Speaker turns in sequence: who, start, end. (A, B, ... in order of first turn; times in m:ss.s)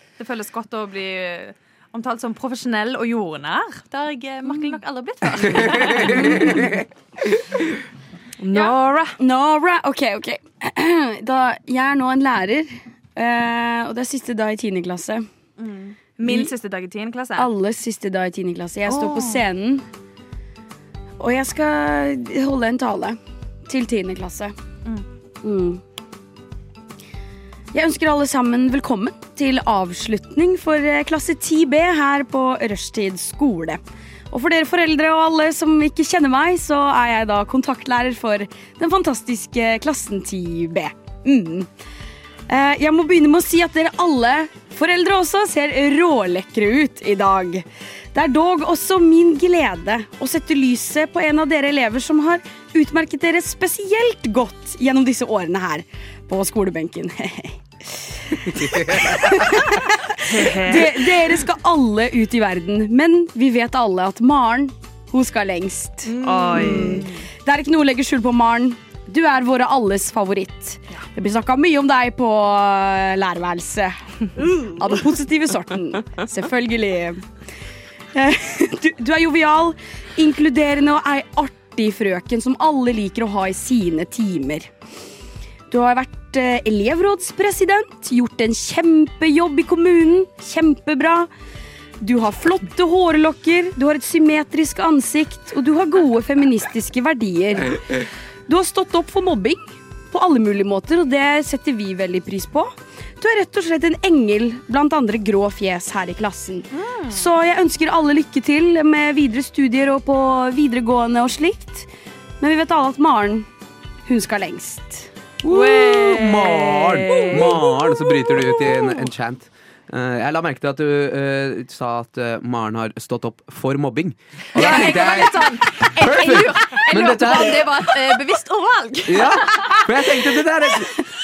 0:00.2-0:06.7 A
0:05.4-0:06.8 B
0:06.0-0:06.7 C
0:08.4-0:09.2 D
0:09.2-0:15.3 C
0:15.6-0:17.5 A
0:16.2-0:16.5 C
0:17.4-0:19.9 C
0:18.9-0:19.4 A
0:21.2-0:24.6 C
0:25.4-0:25.8 C
0:27.7-0:41.7 C
0:42.5-1:17.2 C
0:58.6-0:59.2 B
1:00.3-1:01.4 D
1:06.1-1:07.2 A
1:06.2-1:07.1 D
1:18.1-1:24.7 C
1:25.7-1:31.3 C
1:32.0-1:53.5 C
1:46.7-1:47.3 A
1:54.1-1:55.1 C
1:55.4-2:07.9 B
1:55.5-1:57.6 D
2:04.6-2:10.2 A
2:09.1-2:11.1 B